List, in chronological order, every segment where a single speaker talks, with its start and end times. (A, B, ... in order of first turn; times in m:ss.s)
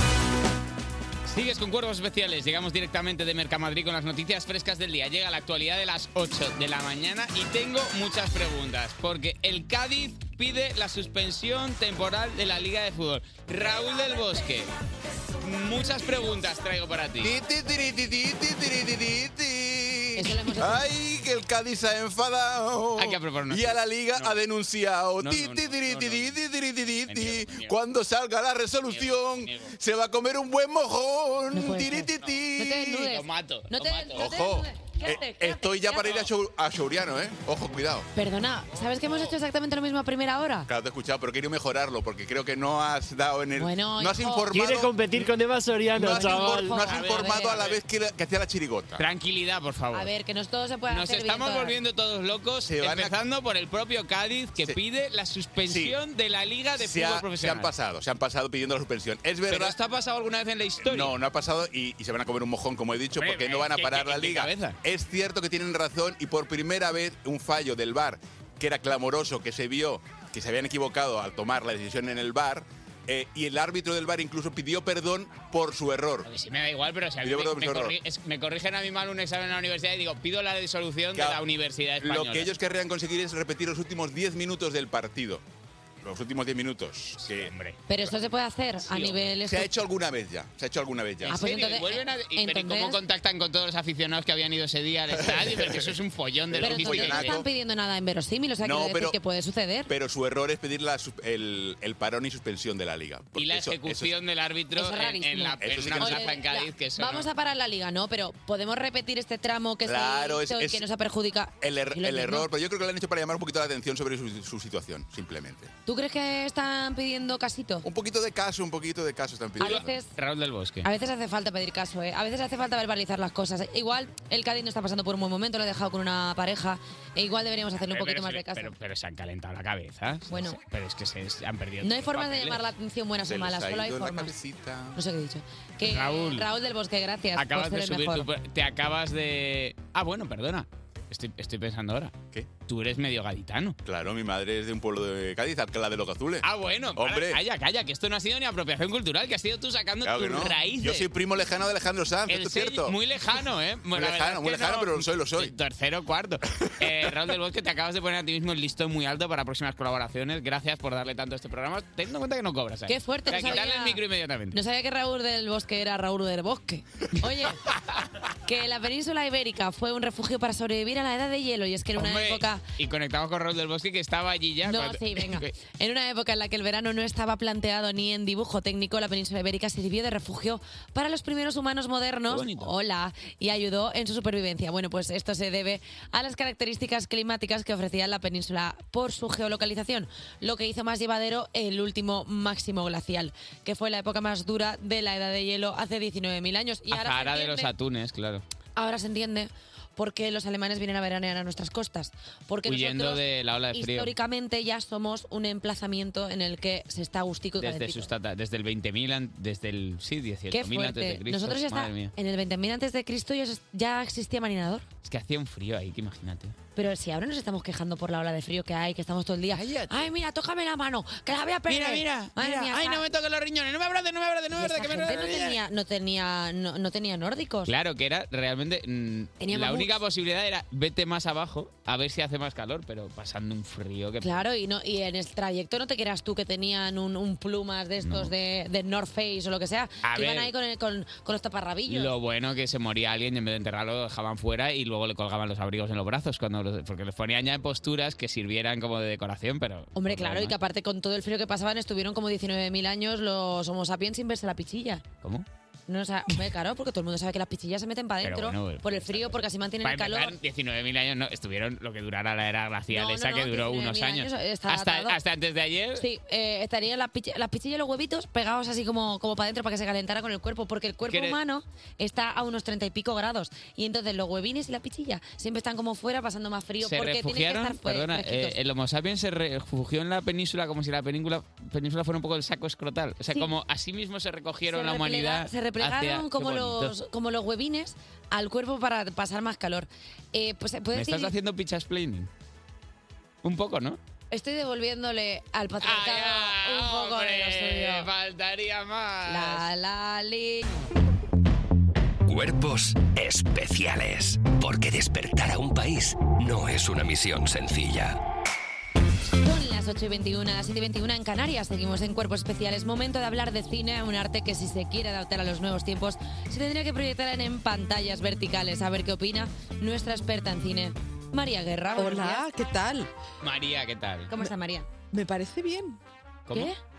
0:01.2-0:14.7 A
0:15.4-0:17.4 A
0:17.2-0:33.1 B
0:20.2-0:20.8 C
0:23.0-0:24.4 A
0:25.2-0:26.4 A
0:27.1-0:27.8 A
0:28.9-0:29.7 A
0:31.5-0:36.2 C
0:33.0-0:34.3 A
0:34.2-0:38.1 B
0:38.1-0:40.7 C
0:40.7-0:45.2 B
0:43.6-0:44.6 C
0:44.5-0:46.9 D
0:45.9-0:49.0 B
0:46.0-0:47.6 C
0:46.8-0:47.8 A
0:49.0-0:50.1 A
0:49.9-0:51.8 C
0:50.9-0:57.7 A
0:52.6-0:53.2 B
0:55.6-0:56.0 B
0:56.7-0:59.8 B
0:59.5-1:01.2 A
1:00.8-1:16.3 B
1:03.2-1:04.8 A
1:16.2-1:22.5 A
1:17.2-1:17.9 B
1:21.1-1:21.4 B
1:22.0-1:25.4 B
1:26.0-1:27.5 B
1:27.2-1:27.8 A
1:27.9-1:29.8 C
1:28.9-1:29.3 A
1:29.4-1:31.4 B
1:31.2-1:37.4 A
1:31.3-1:33.0 C
1:35.2-1:35.9 B
1:36.5-1:37.4 B
1:36.6-1:39.9 C
1:38.6-1:39.2 B
1:39.9-1:44.1 B
1:43.4-1:47.3 A
1:44.8-1:52.5 C
1:45.6-1:46.3 B
1:49.8-1:50.8 B
1:51.6-1:55.7 B
1:55.9-1:57.8 C
1:57.8-1:59.9 B
1:59.6-2:00.1 C
1:59.6-2:00.8 A
2:00.8-2:08.7 C
2:07.9-2:12.7 A
2:10.3-2:10.6 C
2:11.8-2:14.4 C
2:13.3-2:15.0 B
2:14.9-2:18.3 C
2:15.8-2:16.5 A
2:17.4-2:23.8 A
2:23.8-2:26.4 B
2:26.4-2:31.1 A
2:27.0-2:27.4 B
2:30.0-2:32.9 B
2:32.3-2:44.6 A
2:33.9-2:35.5 B
2:42.9-2:44.0 C
2:44.5-2:47.7 C
2:48.4-2:52.6 C
2:52.0-2:55.5 A
2:54.6-3:17.7 C
3:02.3-3:02.7 A
3:16.9-3:18.4 A
3:18.8-3:23.2 C
3:22.6-3:24.1 A
3:23.7-3:28.1 C
3:27.6-3:32.1 A
3:30.5-3:34.8 C
3:35.0-3:36.5 A
3:36.8-3:43.0 C
3:39.5-3:40.1 A
3:41.7-3:45.6 A
3:44.6-3:47.7 C
3:47.6-3:54.4 A
3:49.4-3:50.0 C
3:54.2-4:02.1 C
3:58.0-3:58.3 A
4:00.0-4:00.5 A
4:01.9-4:10.6 A
4:09.9-4:15.0 C
4:15.9-4:20.3 C
4:18.2-4:26.0 A
4:22.9-4:25.2 C
4:26.0-4:38.6 C
4:31.1-4:31.4 A
4:36.8-4:46.9 A
4:44.7-4:51.3 C
4:50.9-4:52.3 A
4:53.4-4:54.0 A
4:54.3-4:58.1 C
4:55.8-4:59.7 A
4:59.3-5:00.7 C
5:02.2-5:08.2 E
5:09.4-5:22.4 C
5:21.9-5:23.1 F
5:23.4-5:24.3 A
5:24.3-5:24.9 C
5:25.1-5:26.0 F
5:26.5-5:26.7 A
5:26.5-5:26.8 C